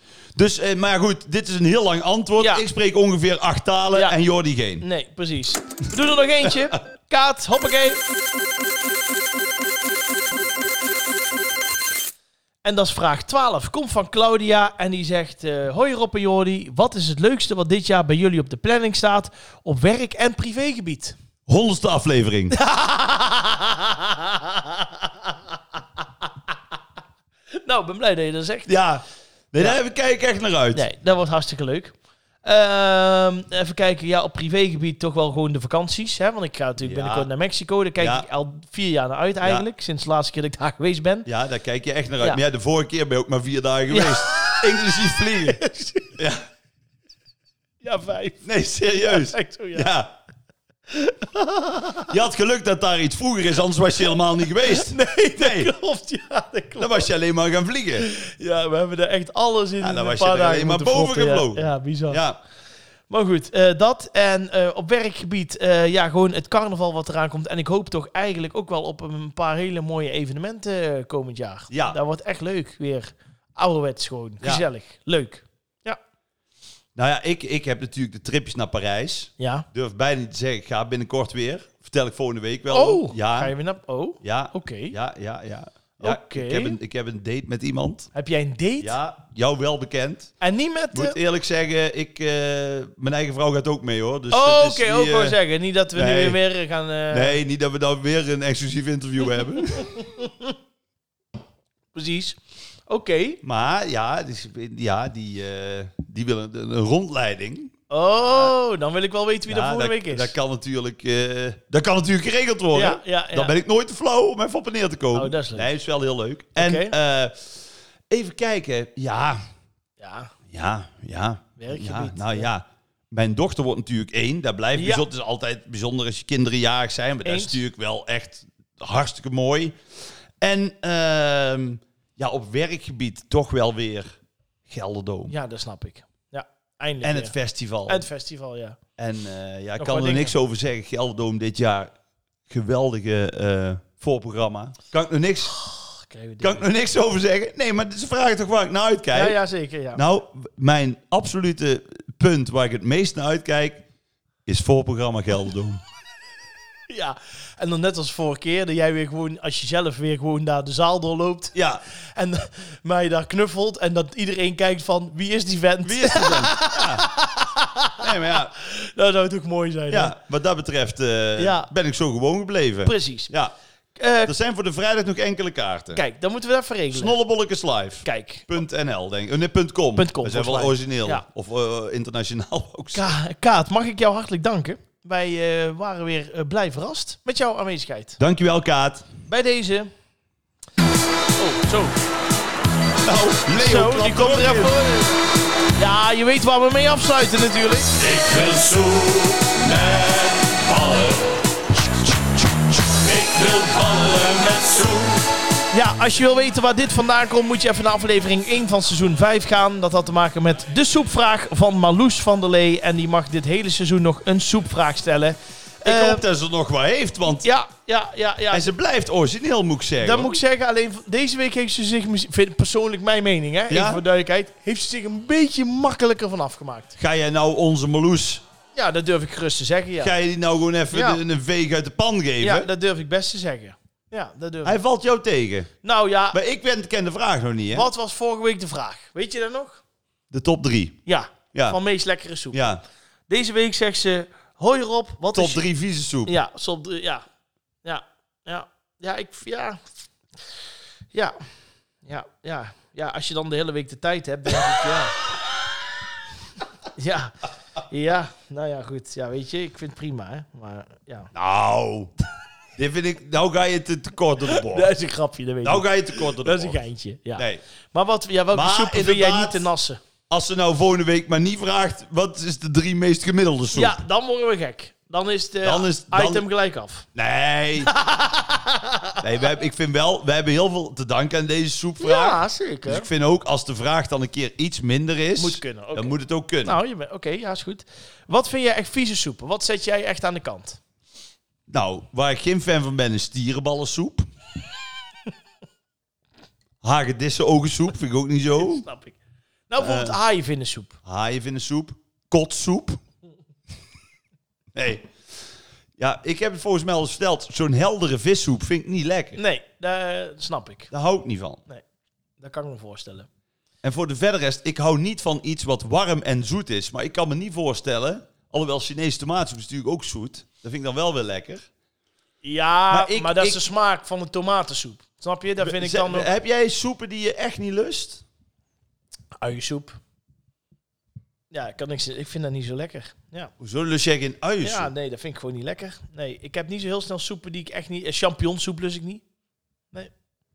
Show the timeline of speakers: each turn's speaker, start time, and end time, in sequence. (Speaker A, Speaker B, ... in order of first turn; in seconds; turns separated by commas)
Speaker A: 0.3-4.8, Speaker B: 4.8-8.0, Speaker B: 12.6-21.1, Speaker A: 21.5-22.6, Speaker B: 22.5-25.1, Speaker B: 27.6-28.7, Speaker A: 28.7-30.8, Speaker B: 30.7-41.3, Speaker A: 36.8-37.3, Speaker A: 38.0-38.2, Speaker A: 41.2-45.6, Speaker B: 43.9-46.2, Speaker A: 46.1-46.4, Speaker B: 47.8-48.4, Speaker A: 48.4-50.1, Speaker B: 49.0-49.9, Speaker B: 50.9-52.1, Speaker A: 52.1-55.7, Speaker B: 54.6-57.0, Speaker A: 56.8-58.1, Speaker B: 58.0-62.2, Speaker A: 59.8-62.4, Speaker B: 63.1-76.0, Speaker A: 71.7-72.0, Speaker A: 76.9-83.5, Speaker B: 79.4-79.7, Speaker B: 82.7-84.9, Speaker A: 84.2-88.1, Speaker B: 86.0-86.8, Speaker B: 88.1-88.9, Speaker A: 88.8-90.3, Speaker B: 90.4-91.2, Speaker A: 90.9-95.4, Speaker B: 94.3-97.4, Speaker A: 95.9-96.4, Speaker A: 97.1-100.0, Speaker B: 99.7-100.5, Speaker B: 101.9-102.4, Speaker B: 102.9-103.4, Speaker A: 103.4-107.7, Speaker B: 107.9-110.3, Speaker A: 108.2-108.5, Speaker A: 109.5-119.4, Speaker B: 112.7-113.5, Speaker B: 115.1-115.7, Speaker B: 116.6-116.9, Speaker B: 120.0-120.3, Speaker A: 120.5-129.8, Speaker B: 121.6-122.5, Speaker B: 124.7-125.0, Speaker B: 127.2-127.6, Speaker A: 130.4-134.1, Speaker A: 134.7-135.3, Speaker B: 135.3-137.3, Speaker A: 137.0-138.1, Speaker B: 137.9-138.8, Speaker A: 139.0-141.9, Speaker B: 139.8-140.3, Speaker A: 142.5-145.6, Speaker B: 145.6-146.7, Speaker A: 146.4-149.4, Speaker B: 149.1-150.0, Speaker A: 149.9-153.8, Speaker A: 154.4-155.8, Speaker B: 156.9-161.5, Speaker A: 161.5-161.8, Speaker B: 162.1-170.2, Speaker A: 165.8-167.1, Speaker A: 168.0-168.5, Speaker A: 169.9-173.5, Speaker B: 171.4-171.7, Speaker B: 172.8-173.3, Speaker B: 174.0-174.3, Speaker A: 174.2-176.0, Speaker B: 175.9-177.2, Speaker A: 176.9-183.1, Speaker B: 178.0-178.6, Speaker B: 179.9-181.2, Speaker B: 182.9-188.2, Speaker A: 188.2-189.1, Speaker B: 189.3-189.9, Speaker B: 191.4-192.0, Speaker A: 193.0-194.8, Speaker B: 193.6-195.2, Speaker B: 195.8-197.9, Speaker A: 198.0-199.8, Speaker C: 198.1-201.1, Speaker C: 203.0-204.9, Speaker A: 204.8-205.1, Speaker B: 205.7-216.2, Speaker A: 215.8-217.4, Speaker B: 217.4-218.7, Speaker A: 218.5-220.3, Speaker B: 220.0-227.0, Speaker A: 223.7-224.0, Speaker A: 227.0-228.4, Speaker B: 228.7-230.1, Speaker A: 230.0-232.7, Speaker B: 230.9-231.2, Speaker B: 232.4-234.8, Speaker A: 234.6-235.7, Speaker B: 235.8-236.4, Speaker A: 236.3-237.9, Speaker B: 237.7-239.8, Speaker A: 240.3-241.0, Speaker B: 241.1-242.6, Speaker A: 242.5-242.8, Speaker B: 243.3-245.7, Speaker A: 245.3-246.3, Speaker B: 246.2-247.2, Speaker B: 247.8-249.8, Speaker B: 252.0-255.2, Speaker B: 256.9-261.3, Speaker A: 261.3-262.1, Speaker A: 262.8-264.9, Speaker B: 264.4-270.0, Speaker A: 265.6-266.8, Speaker A: 267.4-267.6, Speaker A: 268.5-269.7, Speaker A: 270.3-274.0, Speaker B: 273.7-277.1, Speaker A: 275.6-276.4, Speaker A: 277.1-277.9, Speaker B: 277.8-279.2, Speaker A: 279.2-286.8, Speaker B: 282.0-283.1, Speaker B: 285.4-290.8, Speaker A: 291.7-294.3, Speaker A: 296.8-298.9, Speaker B: 298.7-299.2, Speaker B: 299.7-300.9, Speaker A: 299.8-300.2, Speaker A: 301.0-303.0, Speaker A: 304.7-305.1, Speaker A: 306.0-309.4, Speaker B: 309.4-310.9, Speaker A: 310.9-311.6, Speaker B: 312.4-313.3, Speaker A: 313.8-321.6, Speaker B: 322.4-326.3, Speaker A: 322.9-323.6, Speaker A: 325.6-328.2, Speaker B: 329.4-330.0, Speaker B: 331.5-333.5, Speaker A: 333.6-334.9, Speaker B: 334.6-339.2